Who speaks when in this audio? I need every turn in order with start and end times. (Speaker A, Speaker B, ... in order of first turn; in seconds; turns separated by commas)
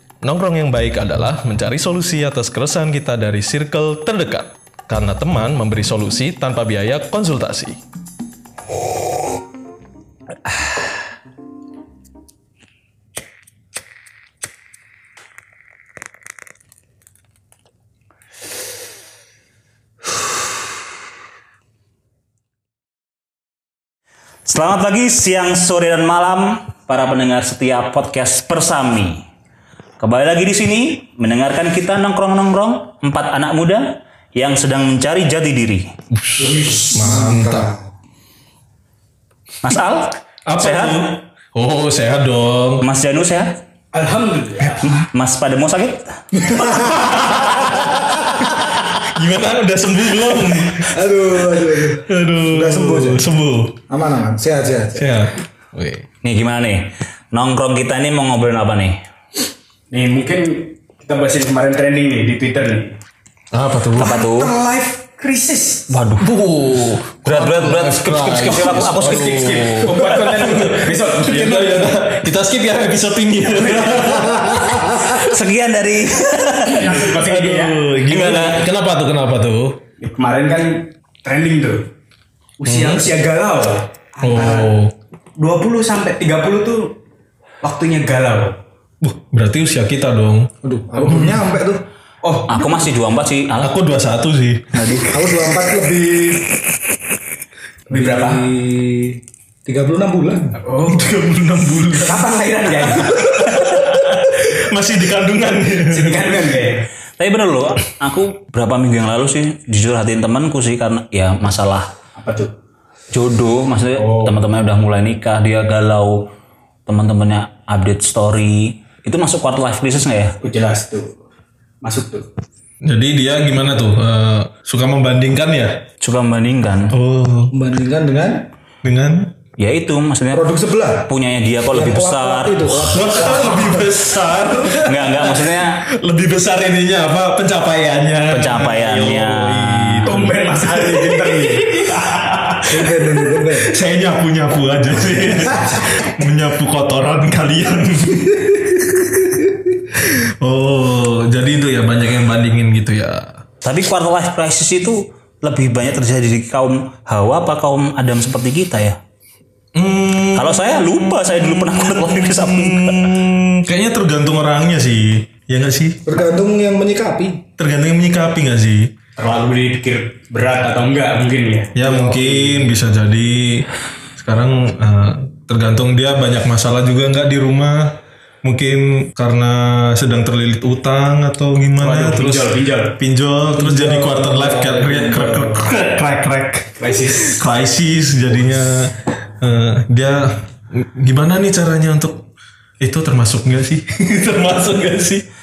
Speaker A: 0.2-7.8, Speaker B: 24.4-29.2, Speaker B: 30.0-35.9, Speaker A: 36.2-37.7, Speaker C: 36.5-36.8, Speaker D: 36.9-37.9, Speaker B: 39.6-41.2, Speaker A: 40.5-42.8, Speaker B: 42.8-43.5, Speaker C: 43.9-45.0, Speaker B: 44.8-46.2, Speaker D: 46.4-47.0, Speaker A: 46.6-51.0, Speaker D: 50.9-53.3, Speaker A: 52.0-53.8, Speaker D: 53.9-55.1, Speaker A: 54.9-56.1, Speaker B: 56.2-59.0, Speaker C: 59.9-63.0, Speaker A: 63.5-64.2, Speaker B: 64.0-64.5, Speaker C: 64.0-66.0, Speaker B: 65.9-66.3, Speaker A: 66.2-75.2, Speaker B: 67.2-69.5, Speaker C: 68.5-72.2, Speaker C: 73.5-74.8, Speaker B: 74.8-77.1, Speaker C: 76.7-77.9, Speaker A: 77.1-79.8, Speaker B: 78.1-78.6, Speaker C: 80.0-81.9, Speaker C: 82.6-84.8, Speaker A: 82.6-83.1, Speaker A: 84.2-84.9, Speaker C: 85.4-86.9, Speaker C: 87.6-88.6, Speaker A: 89.0-91.4, Speaker D: 90.6-91.9, Speaker C: 92.2-92.9, Speaker B: 92.5-93.7, Speaker A: 93.6-95.0, Speaker B: 94.7-95.1, Speaker D: 95.0-96.6, Speaker C: 97.9-98.5, Speaker D: 97.9-100.6, Speaker C: 100.6-101.2, Speaker A: 100.8-102.4, Speaker C: 101.9-103.8, Speaker A: 102.9-106.3, Speaker C: 105.8-106.9, Speaker B: 107.2-111.9, Speaker C: 112.2-112.5, Speaker B: 113.1-116.2, Speaker C: 114.0-114.4, Speaker B: 116.9-120.4, Speaker C: 120.4-121.2, Speaker C: 121.8-122.3, Speaker A: 122.8-125.8, Speaker B: 126.0-126.9, Speaker A: 126.9-127.6, Speaker D: 127.5-128.5, Speaker A: 128.8-129.3, Speaker B: 129.6-130.5, Speaker D: 130.3-131.1, Speaker B: 131.1-133.2, Speaker D: 131.7-133.9, Speaker A: 132.9-141.7, Speaker B: 134.8-135.8, Speaker B: 138.3-140.2, Speaker C: 140.1-143.0, Speaker D: 142.7-143.7, Speaker A: 143.4-149.3, Speaker C: 145.4-146.1, Speaker A: 149.8-153.4, Speaker B: 153.6-159.0, Speaker A: 159.8-166.0, Speaker B: 160.3-163.1, Speaker D: 166.1-167.4, Speaker A: 167.6-168.9, Speaker C: 169.2-172.6, Speaker A: 171.8-192.3, Speaker D: 171.8-172.4, Speaker C: 181.8-183.0, Speaker C: 183.6-185.7, Speaker D: 183.7-184.1, Speaker C: 186.8-187.5, Speaker A: 192.8-195.2